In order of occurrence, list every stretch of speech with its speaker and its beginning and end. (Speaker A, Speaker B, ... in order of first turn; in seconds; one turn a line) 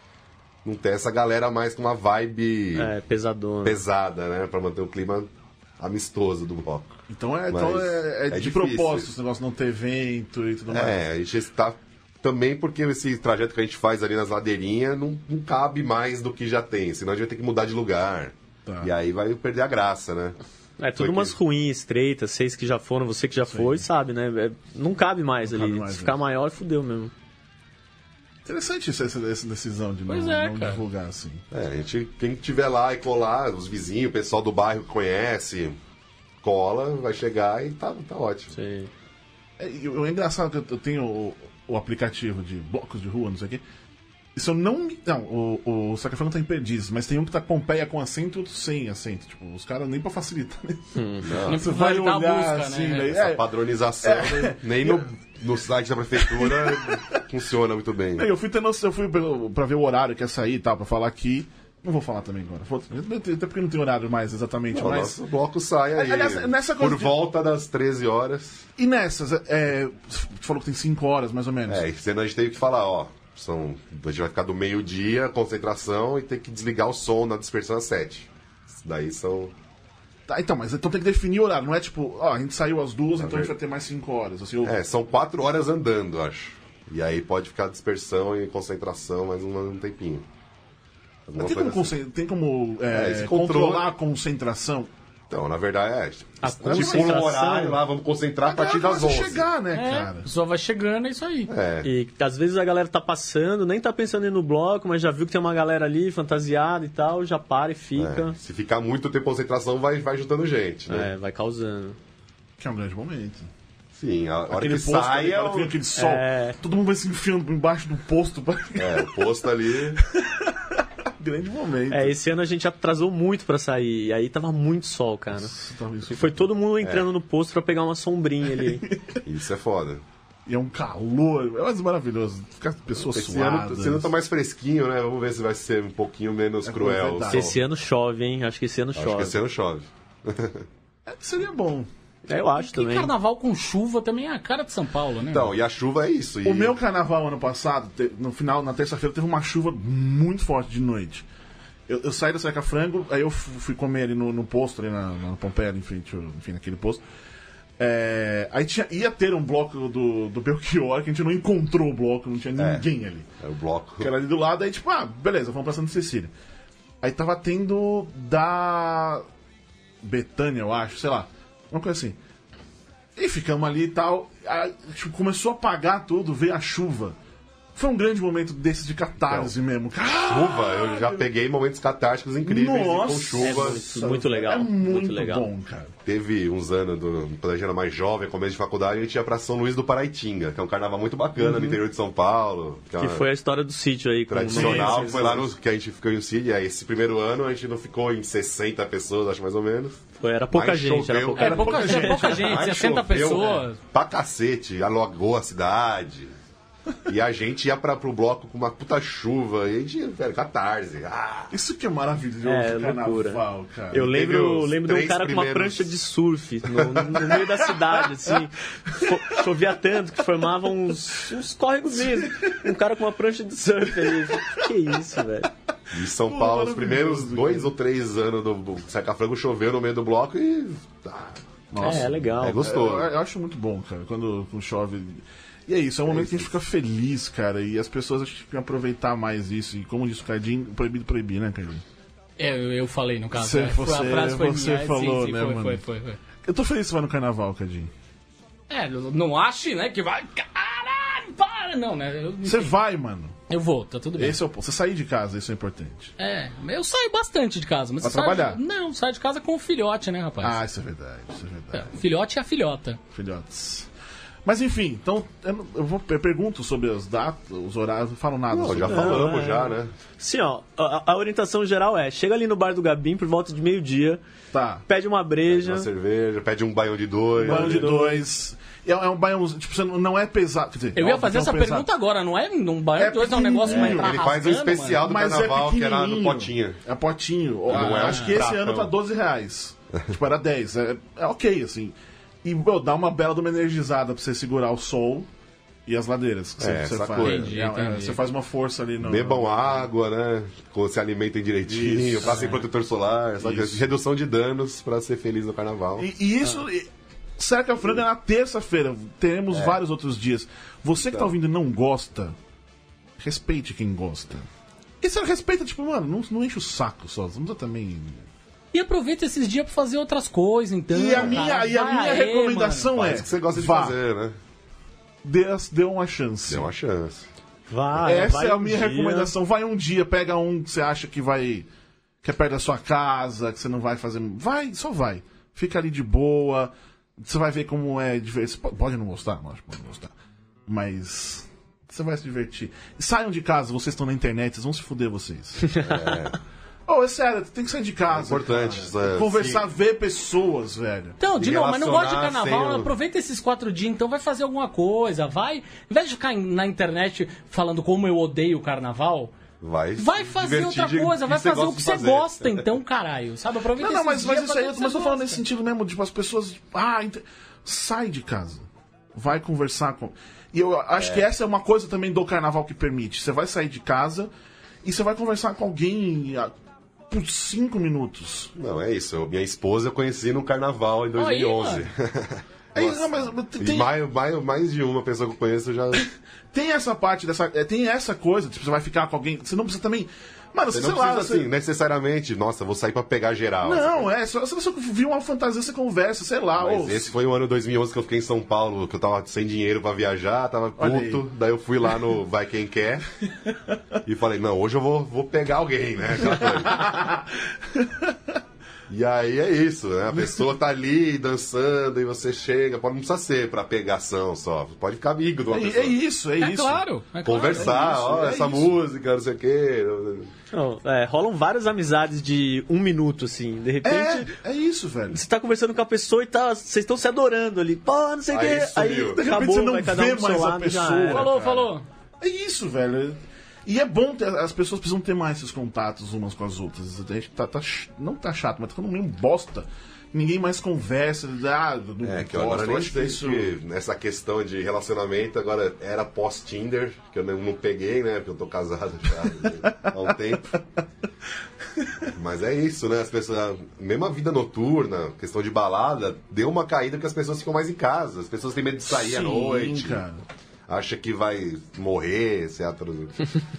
Speaker A: 0.6-2.9
Speaker B: 2.8-3.8
Speaker A: 3.6-9.1
Speaker C: 7.1-11.0
Speaker A: 10.7-20.4
Speaker C: 18.6-18.9
Speaker B: 20.8-27.1
Speaker A: 20.9-21.4
Speaker C: 23.5-23.8
Speaker C: 25.4-26.2
Speaker C: 28.4-31.4
Speaker D: 30.1-30.8
Speaker A: 31.5-35.8
Speaker A: 36.4-38.5
Speaker B: 38.5-38.9
Speaker C: 39.6-43.6
Speaker C: 44.3-53.5
Speaker B: 50.9-51.3
Speaker A: 51.2-51.6
Speaker D: 51.4-53.1
Speaker A: 53.0-58.3
Speaker C: 54.0-55.1
Speaker C: 56.2-57.2
Speaker C: 58.2-65.1
Speaker A: 64.7-68.7
Speaker C: 65.9-67.2
Speaker C: 68.8-71.8
Speaker A: 71.7-79.5
Speaker C: 80.3-84.8
Speaker A: 83.1-83.5
Speaker A: 84.6-90.2
Speaker A: 91.3-92.0
Speaker C: 91.4-94.9
Speaker A: 92.9-93.9
Speaker A: 95.3-99.5
Speaker B: 96.4-97.8
Speaker C: 96.7-97.2
Speaker C: 98.4-100.3
Speaker D: 99.7-101.5
Speaker A: 101.5-101.9
Speaker B: 101.8-108.3
Speaker A: 108.0-111.1
Speaker B: 110.9-112.0
Speaker C: 112.6-113.5
Speaker A: 113.9-115.8
Speaker C: 114.5-119.1
Speaker B: 115.9-116.6
Speaker A: 118.8-120.0
Speaker C: 120.0-122.2
Speaker B: 121.9-125.5
Speaker C: 125.3-126.5
Speaker B: 126.1-128.9
Speaker A: 126.8-127.1
Speaker C: 128.6-129.2
Speaker A: 129.2-130.0
Speaker C: 130.4-134.1
Speaker A: 132.9-137.6
Speaker C: 136.6-137.6
Speaker B: 137.3-139.4
Speaker A: 138.9-140.7
Speaker C: 141.1-141.9
Speaker B: 142.3-143.1
Speaker D: 142.6-145.5
Speaker A: 145.3-146.8
Speaker C: 146.4-151.2
Speaker C: 151.9-157.0
Speaker C: 157.8-163.3
Speaker A: 162.6-162.8
Speaker A: 163.4-164.1
Speaker C: 164.0-166.3
Speaker C: 167.0-169.2
Speaker C: 170.0-172.2
Speaker C: 173.2-177.2
Speaker C: 177.7-181.2
Speaker A: 179.3-179.5
Speaker A: 180.2-183.8
Speaker C: 182.4-185.9
Speaker B: 183.4-185.5
Speaker A: 186.1-193.2
Speaker B: 191.4-191.8
Speaker B: 193.0-195.5
Speaker A: 194.3-206.3
Speaker C: 194.5-195.3
Speaker B: 200.2-202.4
Speaker D: 201.4-203.8
Speaker C: 201.4-202.7
Speaker A: 207.1-211.5
Speaker C: 211.5-214.1
Speaker B: 212.4-225.5
Speaker A: 214.0-215.9
Speaker A: 216.8-217.2
Speaker C: 218.9-219.3
Speaker C: 222.0-222.6
Speaker C: 224.0-224.6
Speaker A: 225.9-233.1
Speaker C: 226.2-227.7
Speaker C: 231.7-241.8
Speaker B: 231.8-232.7
Speaker A: 236.1-236.6
Speaker D: 242.4-246.2
Speaker C: 243.3-245.8
Speaker C: 246.4-247.9
Speaker D: 248.7-252.8
Speaker C: 252.4-253.3
Speaker D: 253.5-254.4
Speaker C: 254.2-256.1
Speaker D: 256.2-260.6
Speaker C: 258.0-258.6
Speaker C: 260.4-261.9
Speaker D: 261.7-263.0
Speaker C: 263.1-263.9
Speaker C: 264.4-269.4
Speaker A: 268.5-269.9
Speaker B: 268.9-274.2
Speaker C: 274.5-274.8
Speaker B: 274.9-275.9
Speaker A: 275.5-277.9
Speaker B: 277.4-278.2
Speaker C: 277.4-281.9
Speaker D: 280.9-285.0
Speaker C: 283.0-284.2
Speaker A: 283.6-286.8
Speaker C: 285.0-295.3
Speaker A: 287.7-288.9
Speaker D: 287.8-288.4
Speaker C: 295.9-299.9
Speaker A: 296.6-297.6
Speaker D: 297.2-298.3
Speaker A: 299.0-306.1
Speaker C: 301.7-302.6
Speaker C: 303.4-303.8
Speaker C: 306.0-312.4
Speaker A: 309.5-309.8
Speaker C: 313.2-314.5
Speaker C: 315.0-318.3
Speaker D: 318.7-322.9
Speaker C: 320.9-324.0
Speaker A: 321.1-321.5
Speaker A: 322.9-324.4
Speaker C: 325.2-326.7
Speaker A: 326.5-327.3
Speaker B: 327.7-329.3
Speaker C: 328.0-331.7
Speaker C: 332.2-340.1
Speaker C: 340.7-345.8
Speaker A: 345.8-346.4
Speaker C: 346.9-351.2
Speaker A: 348.1-349.7
Speaker D: 351.2-359.3
Speaker A: 351.3-352.9
Speaker A: 359.6-362.6
Speaker D: 360.0-365.4
Speaker C: 363.8-374.3
Speaker A: 371.0-371.3
Speaker C: 374.8-376.5
Speaker C: 377.1-378.5
Speaker A: 378.5-386.1
Speaker D: 381.1-381.9
Speaker C: 382.7-383.9
Speaker C: 385.9-391.5
Speaker A: 390.7-394.1
Speaker C: 393.6-397.1
Speaker A: 396.6-403.1
Speaker C: 400.8-401.2
Speaker A: 404.0-406.9
Speaker C: 406.6-408.4
Speaker A: 408.9-416.0
Speaker C: 415.5-416.8
Speaker D: 416.4-417.8
Speaker A: 417.2-420.3
Speaker C: 417.5-418.7
Speaker B: 420.5-424.3
Speaker C: 423.8-425.2
Speaker B: 425.1-431.3
Speaker A: 428.3-429.2
Speaker C: 429.1-443.5
Speaker D: 431.1-431.8
Speaker A: 442.0-450.6
Speaker A: 452.1-460.0
Speaker C: 458.9-460.2
Speaker A: 460.7-463.2